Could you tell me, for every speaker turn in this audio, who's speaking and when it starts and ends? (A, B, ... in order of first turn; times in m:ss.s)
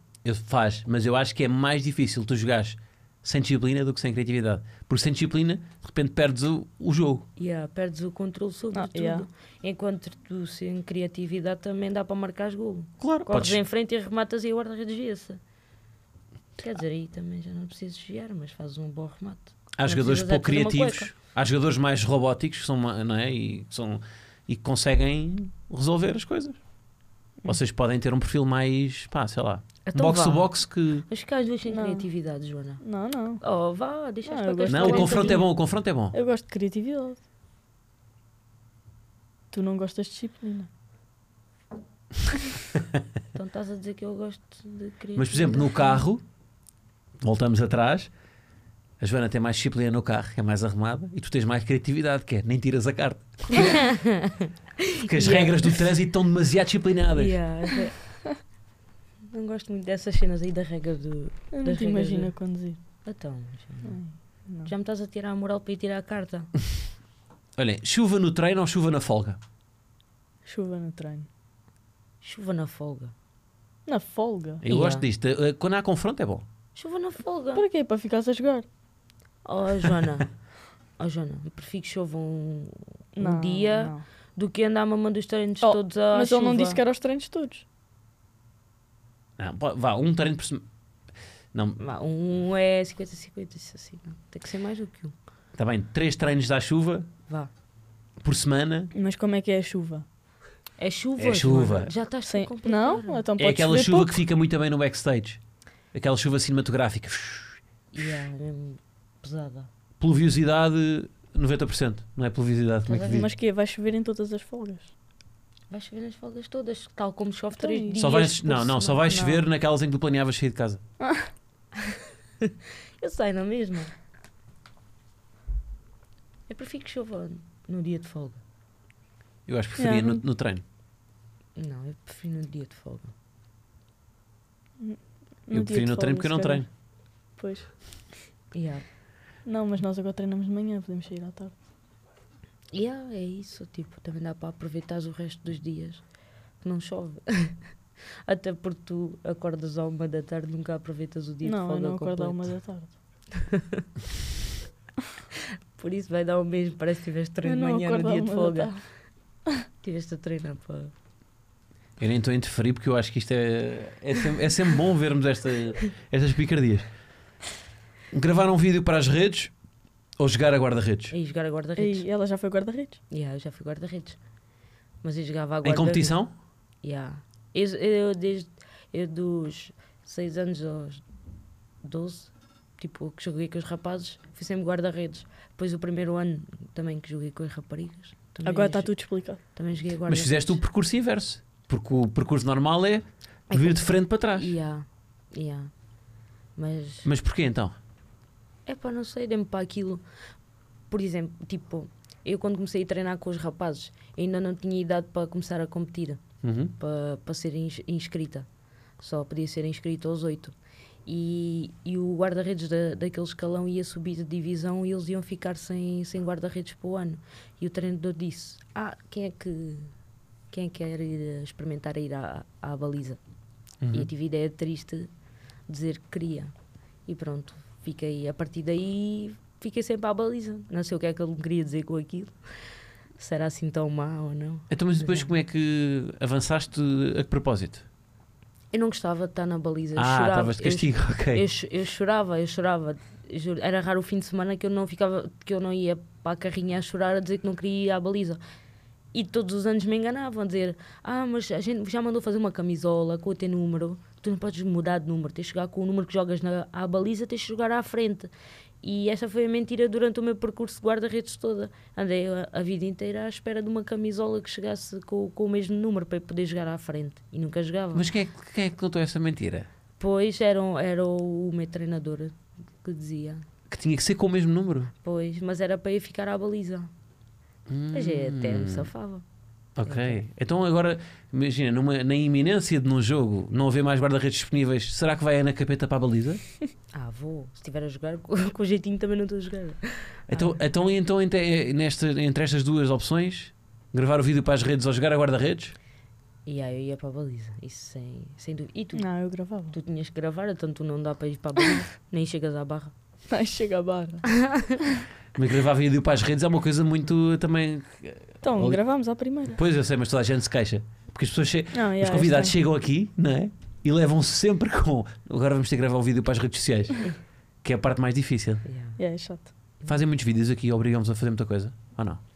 0:00.2-0:07.2 A
0:07.4-0:15.4 B
0:08.7-0:09.3 C
0:13.0-0:13.6 A
0:16.6-0:21.1 B
0:19.8-0:26.6 A
0:27.4-0:31.0 A
0:29.8-0:30.5 B
0:31.1-0:32.8 B
0:31.7-0:32.1 C
0:32.8-0:33.4 C
0:33.4-0:35.4 B
0:34.2-0:35.5 C
0:34.7-0:36.1 A
0:36.1-0:37.2 C
0:39.5-0:40.7 C
0:43.3-0:46.0 B
0:45.2-0:46.2 A
0:47.2-0:48.1 A
0:49.0-0:53.9 A
0:53.5-0:55.8 B
0:55.0-0:57.4 A
0:57.1-0:58.2 B
0:59.3-1:02.4 B
1:01.5-1:02.8 C
1:03.0-1:04.0 B
1:03.8-1:04.7 C
1:04.6-1:06.5 B
1:07.6-1:09.4 A
1:10.4-1:11.3 C
1:12.2-1:13.1 B
1:13.8-1:14.6 C
1:14.6-1:16.4 A
1:14.7-1:15.0 B
1:16.7-1:17.6 B
1:17.5-1:18.6 C
1:19.4-1:20.3 B
1:21.0-1:26.8 B
1:23.2-1:24.0 C
1:25.6-1:27.6 C
1:29.4-1:30.6 A
1:31.5-1:31.8 A
1:31.8-1:35.1 B
1:35.5-1:37.1 A
1:38.2-1:38.9 A
1:38.9-1:40.0 C
1:40.8-1:43.2 B
1:41.2-1:41.9 A
1:42.3-1:44.1 C
1:43.4-1:45.4 A
1:45.9-1:47.6 A
1:47.9-1:49.7 B
1:50.0-1:53.3 A
1:52.9-1:53.2 B
1:53.0-1:54.9 C
1:55.7-1:59.1 B
1:57.6-1:58.1 C
1:58.0-2:00.8 A
1:59.1-1:59.4 C
2:01.0-2:01.3 C
2:02.4-2:03.9 B
2:06.5-2:08.4 B
2:09.5-2:10.6 A
2:09.8-2:10.2 C
2:11.6-2:13.1 B
2:14.8-2:16.7 C
2:15.5-2:16.7 A
2:17.4-2:17.7 C
2:18.5-2:18.8 B
2:19.4-2:21.5 C
2:22.7-2:26.0 B
2:26.6-2:32.5 B
2:31.4-2:33.0 C
2:33.5-2:33.8 B
2:35.7-2:38.9 B
2:37.4-2:38.9 C
2:39.8-2:40.9 B
2:42.0-2:46.9 A
2:48.1-2:49.5 A
2:50.2-2:51.1 A
2:51.1-2:52.0 B
2:51.8-2:53.0 C
2:53.1-2:54.2 B
2:55.0-2:56.2 B
2:55.6-2:56.3 A
2:56.8-3:01.0 B
3:01.8-3:10.6 B
3:08.4-3:09.4 C
3:10.1-3:14.5 A
3:13.5-3:15.7 B
3:16.6-3:17.1 B
3:17.0-3:17.7 A
3:18.6-3:20.0 B
3:20.9-3:26.2 B
3:26.4-3:26.7 A
3:26.8-3:28.5 B
3:29.0-3:30.5 B
3:31.0-3:39.9 B
3:40.5-3:43.2 B
3:43.8-3:44.1 A
3:43.9-3:45.1 B
3:45.7-3:46.5 B
3:47.0-3:55.3 B
3:54.7-3:57.8 A
3:58.7-4:08.4 B
4:00.0-4:01.4 A
4:09.1-4:18.3 B
4:18.8-4:28.1 B
4:27.9-4:29.7 A
4:30.0-4:33.4 B
4:33.7-4:34.9 A
4:35.0-4:36.9 B
4:37.7-4:38.9 A
4:37.9-4:39.2 B
4:39.8-4:46.4 A
4:39.8-4:40.2 B
4:46.9-4:50.6 B
4:50.3-4:55.7 A
4:56.4-4:59.0 B
4:58.9-4:59.7 C
4:59.7-5:02.9 B
5:03.3-5:04.3 C
5:04.3-5:04.8 B
5:05.3-5:08.8 A
5:08.4-5:09.6 C
5:09.5-5:17.1 A
5:11.7-5:12.5 C
5:17.6-5:18.6 A
5:18.6-5:19.0 B
5:19.0-5:19.5 C
5:19.8-5:22.2 A